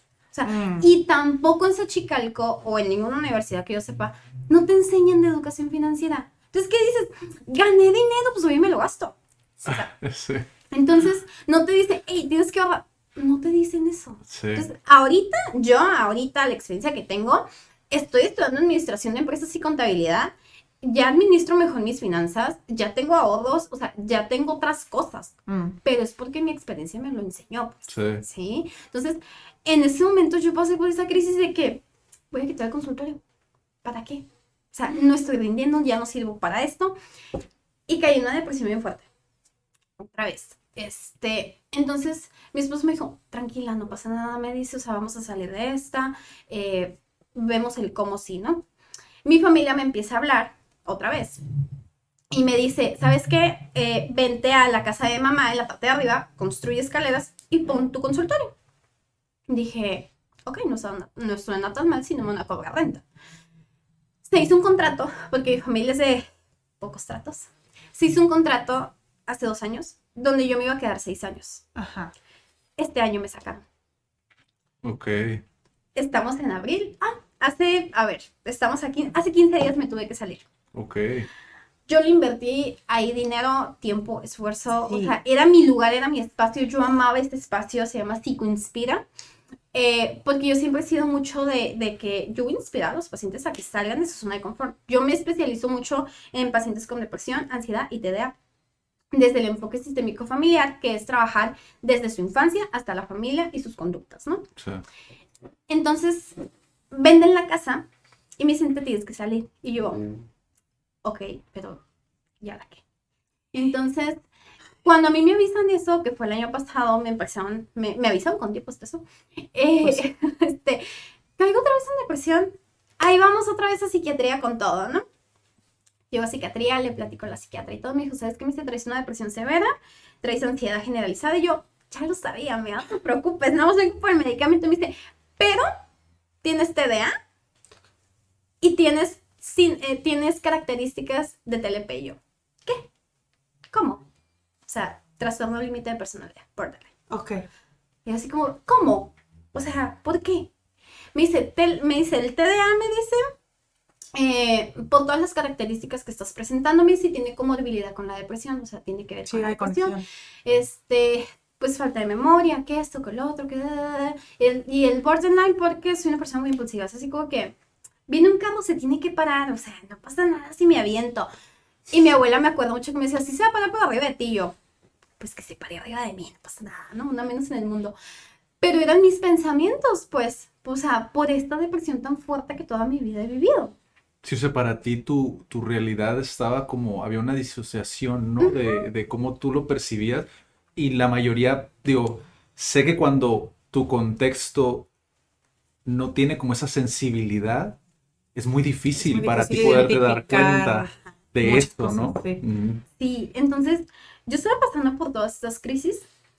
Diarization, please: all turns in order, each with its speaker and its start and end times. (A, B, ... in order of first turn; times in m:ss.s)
0:00.3-0:09.9 A
0:00.4-0:00.9 B
0:09.7-0:10.5 C
0:10.7-0:33.2 A
0:14.3-0:14.7 C
0:25.5-0:25.8 B
0:27.9-0:28.2 C
0:33.8-0:37.0 A
0:37.9-0:39.0 A
0:40.0-0:48.6 A
0:49.2-0:51.4 A
0:52.3-0:58.5 A
0:59.5-1:03.0 A
1:04.3-1:06.3 A
1:06.8-1:11.6 A
1:11.8-1:12.1 B
1:12.8-1:13.6 A
1:14.8-1:15.4 C
1:16.0-1:20.4 A
1:20.7-1:21.3 C
1:21.9-1:29.1 A
1:24.8-1:25.2 B
1:29.7-1:38.3 A
1:39.1-1:44.4 A
1:44.6-1:44.8 C
1:45.7-1:46.4 A
1:46.9-1:47.9 A
1:48.4-1:50.3 A
1:51.0-1:51.8 A
1:52.4-1:52.8 A
1:53.5-1:54.2 A
1:54.8-2:00.9 A
2:01.4-2:05.0 A
2:06.1-2:15.7 A
2:16.4-2:17.2 A
2:18.6-2:22.9 A
2:23.7-2:24.1 A
2:24.7-2:26.9 A
2:27.1-2:27.5 B
2:28.0-2:30.5 A
2:31.2-2:33.2 A
2:34.1-2:47.6 A
2:39.3-2:40.1 B
2:48.1-2:51.3 A
2:51.9-2:54.6 A
2:55.2-2:58.0 A
2:58.6-3:03.8 A
3:04.2-3:14.9 C
3:08.4-3:08.9 A
3:15.9-3:17.8 C
3:18.4-3:22.8 C
3:19.0-3:22.4 B
3:23.0-3:26.1 A